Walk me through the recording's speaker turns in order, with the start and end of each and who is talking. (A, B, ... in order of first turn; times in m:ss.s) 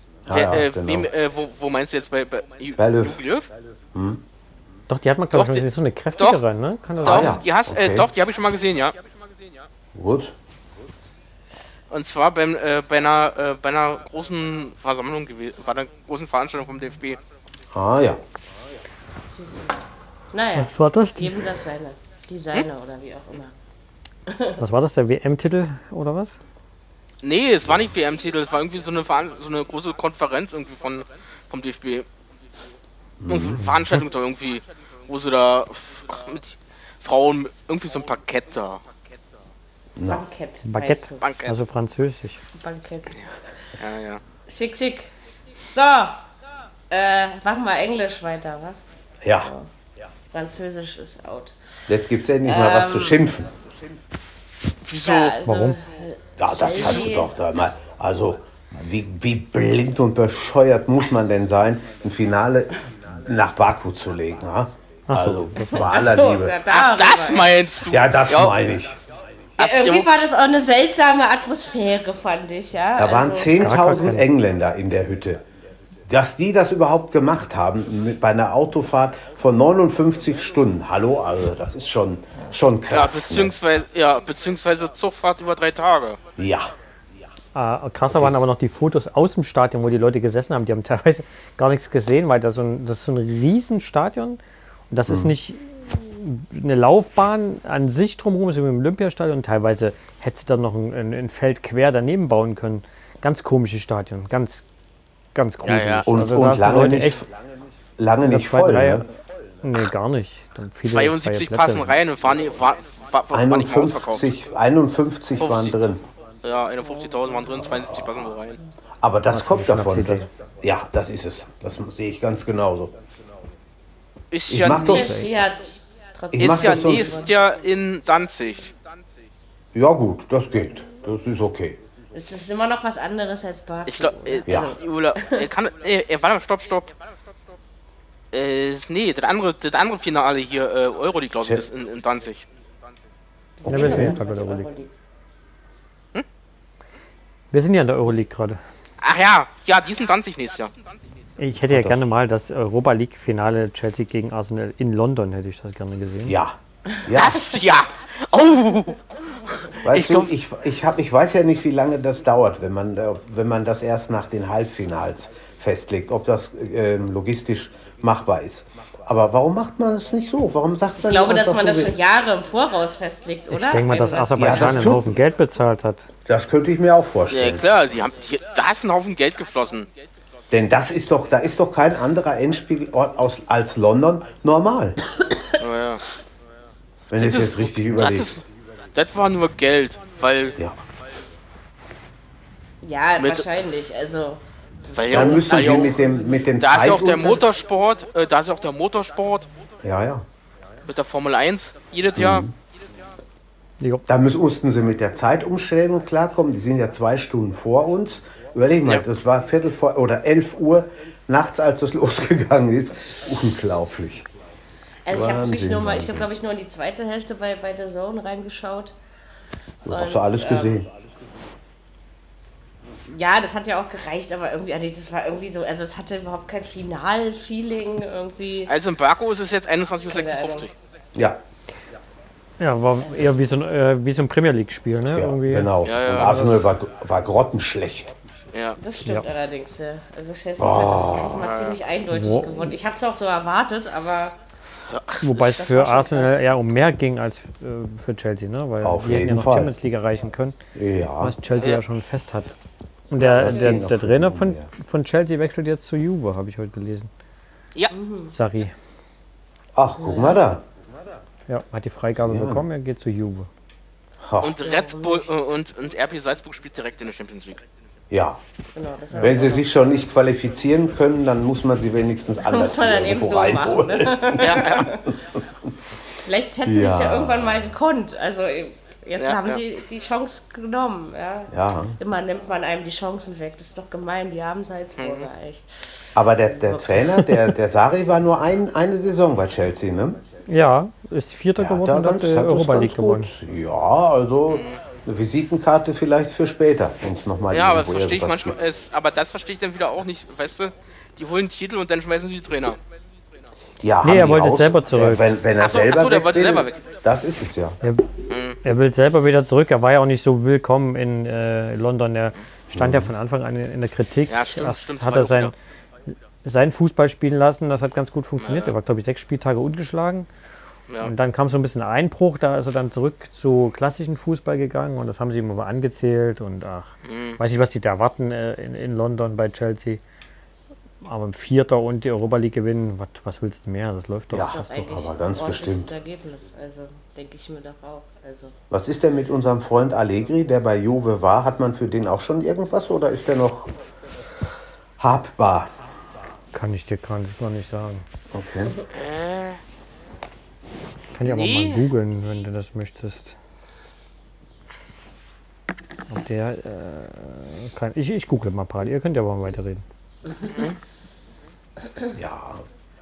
0:00.2-0:01.1 A
0:00.3-0:03.5 B
0:02.8-0:03.2 A
0:03.9-0:04.2 A
0:04.9-0:07.4 C
0:05.3-0:05.6 B
0:07.0-0:08.1 A
0:07.0-0:09.0 B
0:09.9-0:10.3 A
0:11.9-0:17.2 B
0:17.7-0:18.2 A
0:19.3-0:19.8 D
0:20.3-0:23.5 D
0:20.6-0:21.4 C
0:24.3-0:24.6 D
0:24.6-0:26.4 C
0:27.2-0:32.1 B
0:33.2-0:33.6 A
0:33.3-0:38.8 B
0:40.0-0:40.2 A
0:40.0-0:41.2 D
0:40.6-0:42.4 C
0:41.2-0:41.6 B
0:42.5-0:43.2 D
0:43.8-0:44.2 B
0:44.5-0:45.1 D
0:45.7-0:46.2 D
0:46.9-0:48.8 D
0:49.2-0:49.5 A
0:49.4-0:49.7 D
0:50.3-0:51.6 D
0:51.9-0:53.5 A
0:52.4-0:53.2 D
0:54.8-0:55.4 B
0:55.0-0:57.3 D
0:55.4-0:55.7 C
0:56.4-1:06.6 A
0:56.7-0:57.1 B
1:05.1-1:05.9 C
1:05.6-1:07.6 D
1:06.7-1:08.6 B
1:07.8-1:09.0 A
1:09.6-1:13.8 D
1:09.6-1:10.2 B
1:13.0-1:15.4 A
1:13.6-1:14.2 C
1:16.1-1:23.6 A
1:22.9-1:26.2 B
1:26.4-1:26.7 A
1:27.5-1:34.4 C
1:28.0-1:28.4 A
1:34.9-1:44.6 C
1:35.1-1:35.3 A
1:45.3-1:47.2 C
1:45.6-1:46.1 B
1:46.0-1:47.3 A
1:48.0-1:49.1 A
1:48.2-1:49.0 C
1:49.6-1:51.9 C
1:50.9-1:54.3 B
1:53.3-1:56.0 A
1:55.4-1:58.6 B
1:59.0-2:03.0 A
1:59.3-2:00.3 C
2:04.3-2:05.2 B
2:04.5-2:05.3 A
2:04.8-2:07.3 D
2:04.8-2:05.3 C
2:06.3-2:07.2 A
2:06.4-2:08.7 B
2:09.7-2:11.8 A
2:12.1-2:15.5 D
2:13.9-2:16.9 B
2:14.5-2:14.8 A
2:18.3-2:22.5 B
2:23.6-2:24.9 D
2:23.6-2:24.2 A
2:23.7-2:24.7 C
2:27.5-2:28.6 C
2:29.0-2:30.7 B
2:31.4-2:36.4 C
2:31.6-2:32.0 A
2:36.2-2:37.5 A
2:37.1-2:39.0 B
2:39.7-2:40.3 B
2:39.8-2:51.9 A
2:51.0-2:55.0 D
2:53.5-2:56.1 C
2:54.4-2:55.2 A
2:56.2-2:57.6 A
2:57.3-2:59.9 B
3:00.5-3:05.0 A
3:05.6-3:06.0 B
3:07.1-3:08.4 A
3:07.1-3:10.6 B
3:12.8-3:16.5 D
3:13.2-3:13.5 B
3:15.0-3:16.0 B
3:15.1-3:17.4 A
3:16.6-3:19.5 B
3:19.8-3:20.2 A
3:20.8-3:22.4 B
3:22.2-3:22.5 A
3:23.8-3:24.0 C
3:24.1-3:34.3 A
3:35.0-3:38.9 D
3:35.1-3:36.3 A
3:39.8-3:40.9 A
3:39.8-3:40.8 D
3:43.1-3:48.7 D
3:48.7-3:50.7 B
3:50.1-3:50.7 D
3:51.1-3:51.4 A
3:52.6-3:56.6 C
3:53.0-3:53.3 D
3:55.1-3:58.1 A
3:55.8-3:56.4 B
3:58.5-3:58.8 B
3:58.8-4:04.4 D
4:00.6-4:01.4 A
4:01.3-4:01.8 B
4:02.1-4:02.7 C
4:04.9-4:05.2 B
4:05.2-4:10.6 C
4:05.3-4:06.4 D
4:08.8-4:09.7 A
4:10.7-4:11.4 A
4:11.2-4:12.5 C
4:11.5-4:11.8 B
4:13.1-4:17.1 C
4:13.2-4:14.7 A
4:13.2-4:13.5 B
4:17.9-4:18.3 D
4:18.3-4:18.7 C
4:19.7-4:20.6 A
4:19.9-4:20.4 D
4:21.5-4:23.5 C
4:22.2-4:22.6 A
4:24.2-4:24.6 A
4:24.4-4:27.6 B
4:24.6-4:25.3 D
4:28.1-4:28.4 A
4:28.7-4:29.7 D
4:29.1-4:35.0 A
4:32.4-4:35.1 D
4:34.4-4:34.9 B
4:36.2-4:47.5 D
4:36.6-4:37.7 A
4:39.2-4:39.6 B
4:41.5-4:42.0 A
4:45.0-4:45.3 B
4:46.1-4:50.2 A
4:50.5-4:53.3 C
4:51.6-4:58.6 A
4:54.5-4:54.8 B
4:57.5-5:02.8 B
5:03.8-5:07.8 A
5:04.0-5:05.2 C
5:05.6-5:06.9 B
5:07.8-5:08.1 C
5:08.3-5:08.6 B
5:08.6-5:15.5 C
5:12.7-5:13.1 A
5:14.3-5:15.5 B
5:16.4-5:20.3 C
5:18.4-5:18.7 B
5:21.0-5:30.0 C
5:27.0-5:27.4 B
5:31.0-5:34.7 C
5:34.3-5:35.9 A
5:34.4-5:38.6 D
5:38.7-5:43.7 A
5:45.0-5:45.7 A
5:46.5-5:48.0 C
5:48.3-5:48.8 A
5:48.9-5:49.6 B
5:51.1-5:53.3 C
5:51.2-5:51.8 B
5:56.1-5:59.8 C
6:00.4-6:00.8 B
6:02.1-6:02.6 A